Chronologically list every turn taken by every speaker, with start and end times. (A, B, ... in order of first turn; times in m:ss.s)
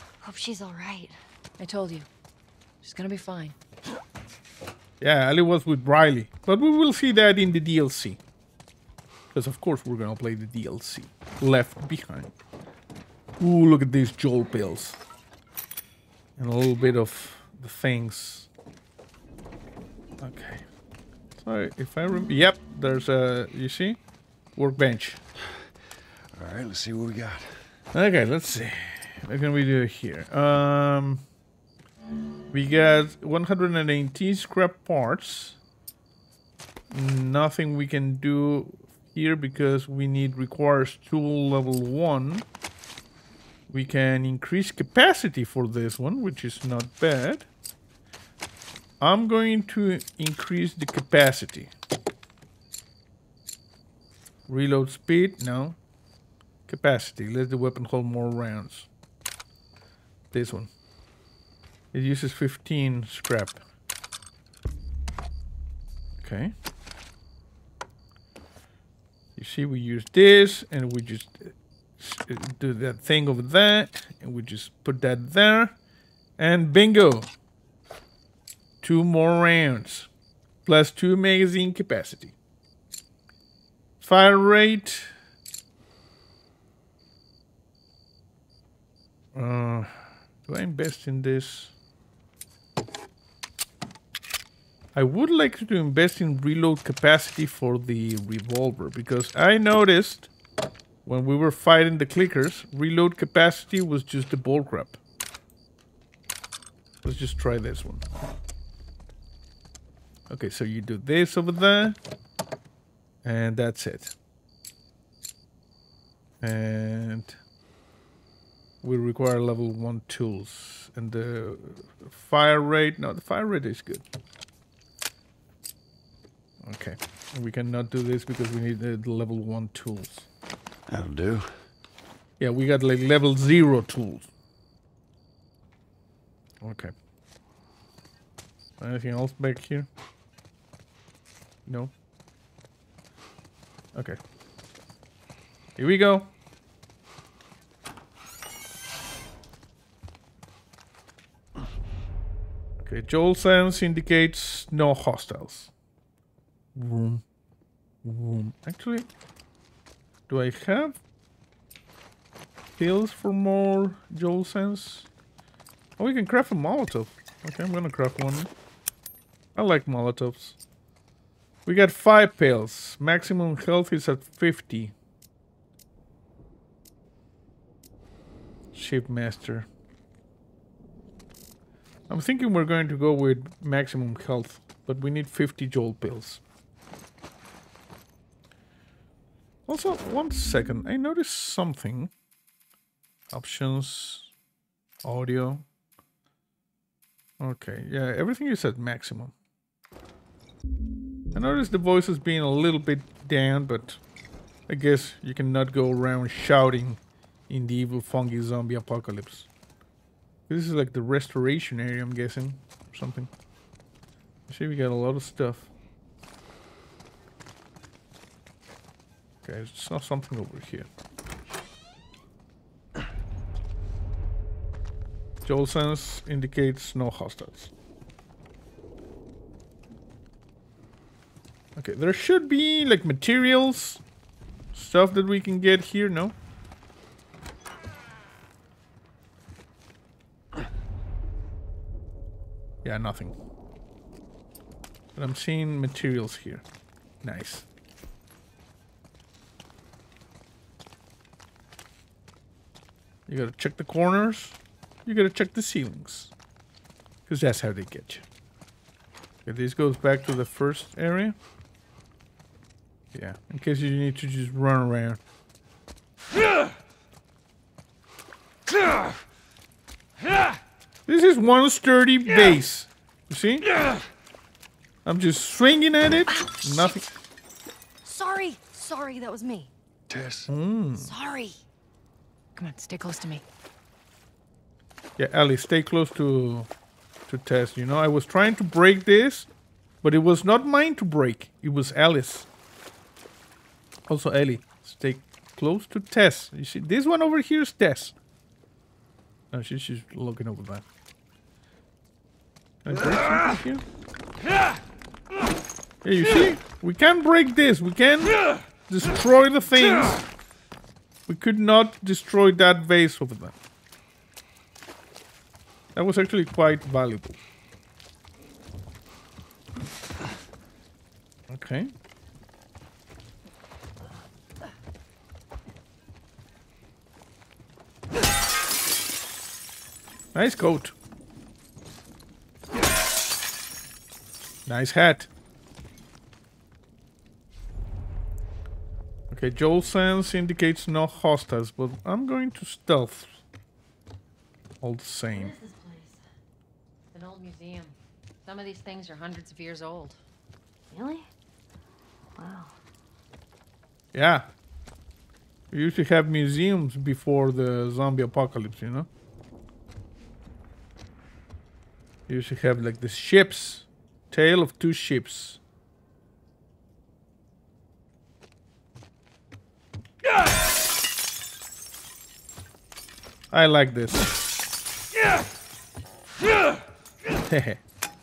0:00.2-0:01.1 A
0:01.6-0:02.1 B
0:02.8-0:03.6 B
0:05.0-0:08.2 C
0:09.3-0:12.3 C
0:13.4-0:15.0 C
0:16.4-0:18.5 C
0:20.2-0:20.6 C
0:21.4-0:24.0 C
0:24.6-0:25.2 C
0:25.5-0:25.7 D
0:26.3-0:27.8 D
0:27.9-0:31.2 C
0:32.5-0:35.6 C
0:36.9-0:42.4 C
0:43.7-0:47.5 C
0:49.0-0:51.7 C
0:54.5-0:55.8 C
0:56.7-0:58.9 C
1:00.3-1:00.7 C
1:01.9-1:03.6 C
1:06.2-1:06.5 C
1:09.4-1:15.8 C
1:16.4-1:17.3 C
1:18.8-1:20.1 C
1:20.6-1:22.4 C
1:24.0-1:25.1 C
1:29.4-1:31.7 C
1:35.0-1:40.3 C
1:41.0-1:45.0 C
1:47.0-1:48.0 C
1:50.3-1:52.0 C
1:53.2-1:54.2 C
1:56.4-1:57.4 C
1:58.8-2:04.0 C
2:06.6-2:10.3 C
2:10.9-2:11.6 D
2:12.4-2:14.3 C
2:16.6-2:16.9 C
2:18.8-2:19.9 C
2:21.7-2:21.9 C
2:23.9-2:24.2 C
2:25.8-2:26.3 C
2:32.8-2:35.7 C
2:36.8-2:37.2 C
2:38.0-2:39.1 C
2:40.3-2:41.0 C
2:42.8-2:45.1 C
2:46.0-2:48.5 C
2:49.6-2:50.6 C
2:51.7-2:55.0 C
2:58.7-2:59.7 C
3:02.1-3:06.4 C
3:09.7-3:12.1 C
3:13.3-3:14.3 C
3:15.0-3:15.6 C
3:17.4-3:19.3 C
3:21.3-3:24.0 C
3:24.7-3:29.5 C
3:30.5-3:33.3 C
3:34.5-3:35.7 C
3:39.4-3:40.9 C
3:45.4-3:47.7 C
3:51.8-3:54.0 C
3:54.7-3:56.4 C
4:02.8-4:03.4 C
4:05.2-4:06.6 C
4:07.2-4:07.7 C
4:13.3-4:16.3 C
4:17.3-4:18.2 C
4:19.4-4:21.4 C
4:23.1-4:25.2 C
4:28.7-4:29.1 D
4:31.1-4:33.7 C
4:35.0-4:37.1 C
4:36.4-4:36.7 A
4:38.0-4:39.7 A
4:40.1-4:40.5 D
4:40.5-4:41.1 C
4:41.0-4:41.6 A
4:42.6-4:43.4 B
4:45.2-4:46.7 C
4:47.3-4:49.5 C
4:50.0-4:52.5 C
4:54.1-4:58.2 C
4:59.5-5:00.8 C
5:02.8-5:03.8 C
5:06.0-5:10.2 C
5:11.3-5:13.6 C
5:16.0-5:17.4 C
5:21.5-5:21.9 C
5:30.3-5:30.9 C
5:34.7-5:35.3 C
5:39.3-5:43.4 C
5:44.8-5:45.6 C
5:45.3-5:46.2 A
5:47.1-5:50.2 B
5:50.9-5:51.3 A
5:52.4-5:52.7 A
5:54.1-5:54.5 C
5:55.7-5:59.1 C
6:02.3-6:05.6 C
6:13.5-6:14.3 C
6:17.4-6:17.8 C